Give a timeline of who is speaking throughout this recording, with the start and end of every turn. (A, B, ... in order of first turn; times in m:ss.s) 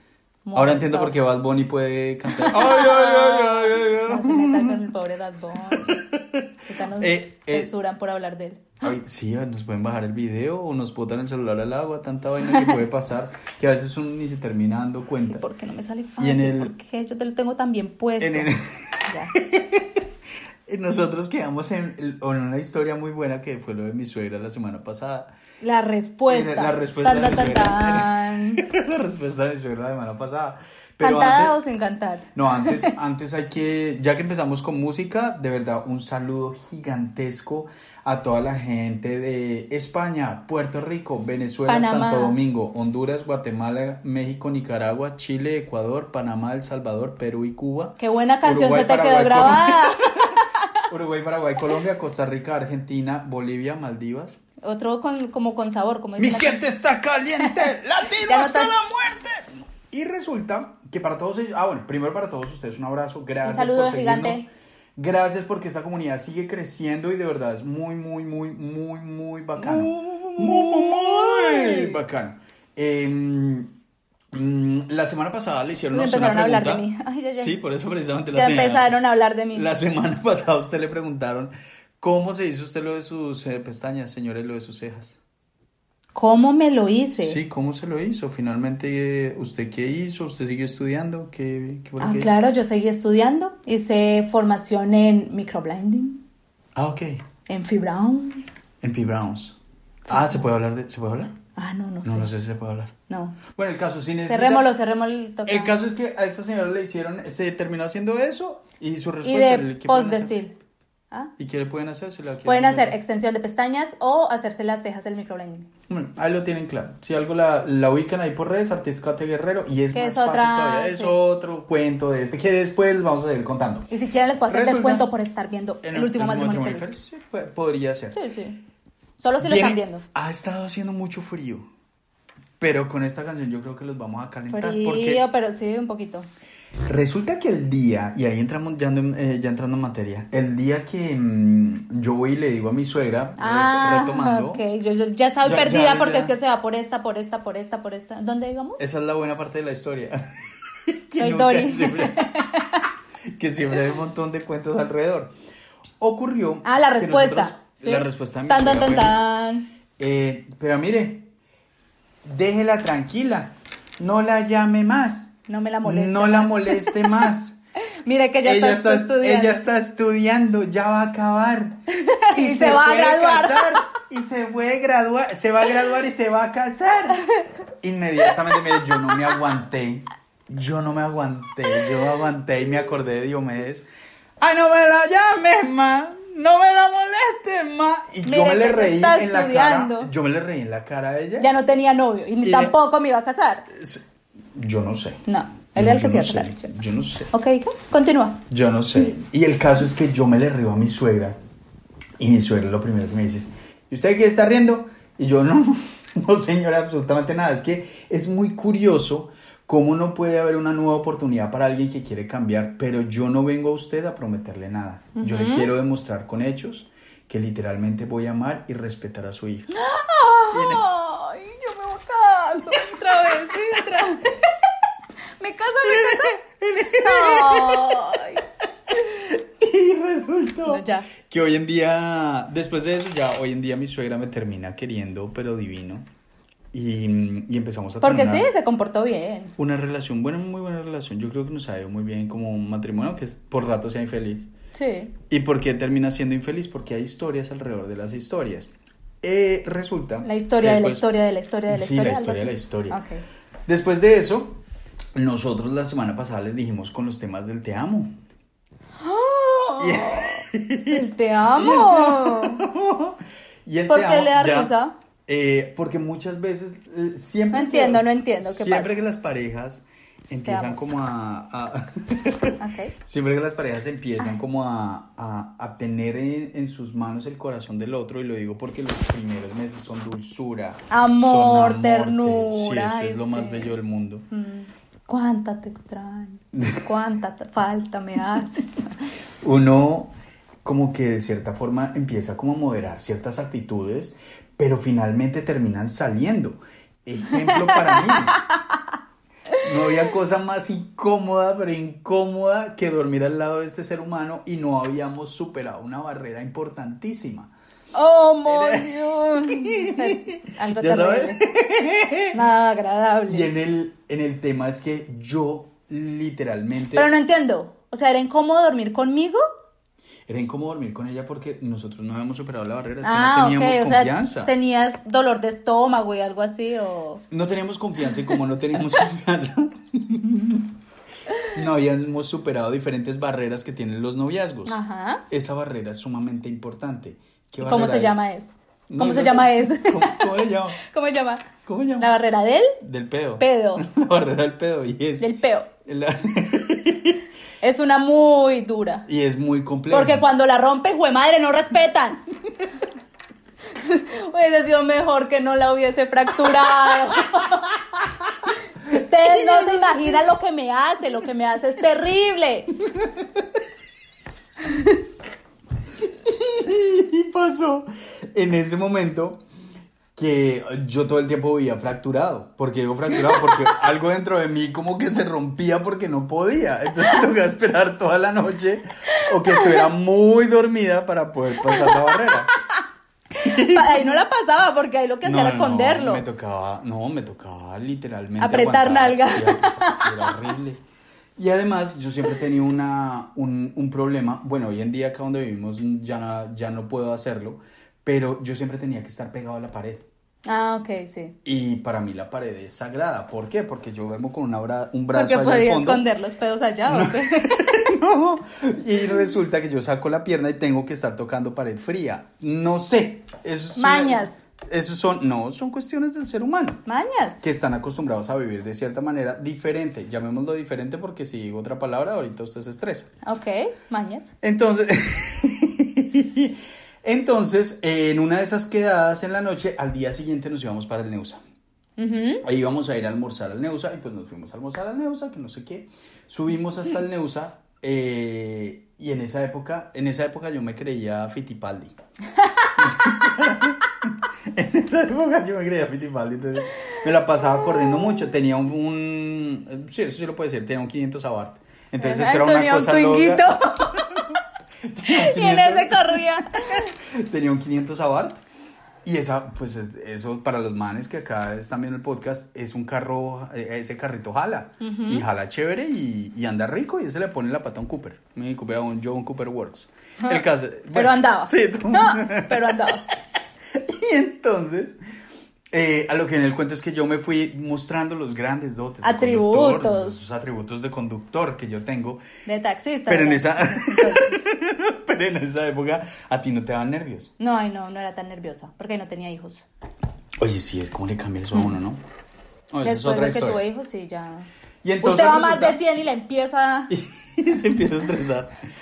0:00.4-0:01.1 A
0:00.5-0:04.8 B
0:02.3-0:06.0 A
0:05.7-0:06.4 B
0:06.6-0:08.7 A
0:07.0-0:07.7 B
0:08.8-0:15.4 B
0:12.5-0:12.8 A
0:15.2-0:18.5 A
0:16.2-0:16.7 B
0:18.2-0:20.0 B
0:19.1-0:19.3 A
0:20.7-0:25.3 B
0:25.6-0:28.7 A
0:26.3-0:31.6 B
0:31.0-0:32.9 A
0:32.3-0:54.4 B
0:41.6-0:42.4 A
0:48.0-0:50.1 A
0:54.6-0:56.6 A
0:56.2-1:13.7 B
0:57.4-0:57.7 A
0:58.2-0:58.7 A
1:03.4-1:04.4 A
1:09.6-1:12.0 A
1:14.3-1:19.0 B
1:15.9-1:17.6 A
1:18.3-1:19.7 A
1:19.5-1:25.2 B
1:26.1-1:27.4 A
1:27.2-1:32.3 B
1:32.0-1:36.2 A
1:36.7-1:37.2 B
1:37.5-1:38.4 A
1:38.8-1:39.6 B
1:40.1-1:40.4 A
1:40.1-1:41.3 B
1:41.6-1:42.3 A
1:42.0-1:42.9 B
1:43.1-1:43.4 A
1:43.6-1:44.7 B
1:44.3-1:45.7 A
1:45.4-1:50.4 B
1:49.2-1:50.5 A
1:51.4-1:53.0 B
1:52.4-1:55.7 A
1:55.9-2:03.9 B
1:59.9-2:01.2 A
2:03.9-2:07.0 A
2:04.5-2:05.1 B
2:05.8-2:08.2 B
2:08.1-2:08.6 A
2:09.2-2:10.0 A
2:09.4-2:11.7 B
2:12.6-2:15.2 B
2:14.5-2:16.3 A
2:16.8-2:24.6 B
2:23.4-2:28.8 A
2:25.4-2:26.3 B
2:28.8-2:30.2 B
2:31.0-2:32.3 B
2:31.2-2:32.9 A
2:33.3-2:35.3 B
2:36.0-2:39.2 B
2:36.6-2:39.7 A
2:40.0-2:41.3 B
2:42.2-2:45.3 B
2:45.4-2:47.3 A
2:45.8-2:47.6 B
2:48.0-2:49.6 A
2:48.4-2:57.2 B
2:52.0-2:53.8 A
2:57.8-3:03.8 B
2:58.5-2:59.2 A
3:04.4-3:11.5 B
3:08.2-3:10.1 A
3:11.4-3:13.7 A
3:12.4-3:12.7 B
3:13.7-3:14.0 B
3:14.6-3:15.2 B
3:15.2-3:16.8 A
3:15.8-3:17.3 B
3:17.3-3:18.4 A
3:18.5-3:21.4 B
3:22.2-3:39.7 B
3:35.2-3:35.7 A
3:39.7-3:44.4 A
3:40.5-3:40.8 B
3:45.4-3:46.4 A
3:45.8-3:48.0 B
3:47.0-3:48.4 A
3:49.1-3:56.1 B
3:50.6-3:51.1 A
3:56.7-3:58.5 B
3:58.0-3:59.5 A
3:59.6-4:04.5 B
4:04.7-4:05.1 A
4:05.3-4:08.7 B
4:09.2-4:11.0 B
4:10.2-4:13.2 A
4:11.7-4:13.0 B
4:13.6-4:14.6 B
4:15.1-4:18.1 B
4:19.0-4:22.6 A
4:19.8-4:21.0 B
4:21.6-4:24.7 B
4:23.9-4:24.9 A
4:25.3-4:44.2 B
4:27.5-4:28.9 A
4:30.4-4:30.8 A
4:32.6-4:32.9 A
4:40.9-4:43.7 A
4:44.3-4:48.9 A
4:46.6-4:46.8 B
4:49.4-4:58.3 B
4:57.3-4:58.4 A
4:59.6-5:07.5 B
5:07.9-5:11.4 A
5:08.4-5:12.3 B
5:12.3-5:13.5 A
5:13.3-5:17.1 B
5:16.9-5:19.4 A
5:20.3-5:24.5 B
5:23.0-5:27.2 A
5:27.3-5:30.7 B
5:31.5-5:34.8 B
5:34.6-5:35.2 A
5:35.3-5:38.2 B
5:37.6-5:41.5 A
5:38.9-5:40.8 B
5:41.6-5:42.1 B
5:42.0-5:42.8 A
5:42.8-5:45.3 B
5:43.4-5:43.8 A
5:45.2-5:45.7 A
5:45.8-5:47.2 B
5:47.6-5:49.0 A
5:49.1-5:50.3 B
5:49.9-5:52.2 A
5:53.8-5:57.8 A
5:58.8-6:02.7 A
6:04.7-6:05.0 A
6:06.2-6:09.4 B
6:10.2-6:22.5 B
6:19.2-6:19.8 A
6:21.6-6:22.2 A
6:23.4-6:26.2 A
6:23.4-6:24.2 B
6:25.2-6:30.8 B
6:28.4-6:30.3 A
6:31.4-6:40.0 B
6:40.4-6:41.3 A
6:41.4-6:46.1 B
6:45.1-6:47.9 A
6:46.8-6:56.8 B
6:53.8-6:54.4 A
6:56.8-6:57.4 A
6:57.4-7:03.1 B
7:03.2-7:04.3 A
7:04.4-7:11.4 B
7:12.0-7:12.4 A
7:12.4-7:21.9 B
7:22.4-7:22.7 A
7:22.8-7:23.9 B
7:24.5-7:38.4 B
7:32.0-7:34.2 A
7:35.1-7:36.9 A
7:39.0-7:52.9 B
7:44.8-7:45.2 A
7:50.2-7:53.0 A
7:53.7-7:55.0 B
7:55.7-8:02.2 B
7:59.0-8:00.2 A
8:02.4-8:04.4 A
8:03.1-8:07.3 B
8:07.4-8:09.6 A
8:10.4-8:12.0 B
8:12.7-8:13.6 B
8:12.8-8:14.5 A
8:14.8-8:15.8 B
8:15.0-8:16.9 A
8:16.9-8:18.5 B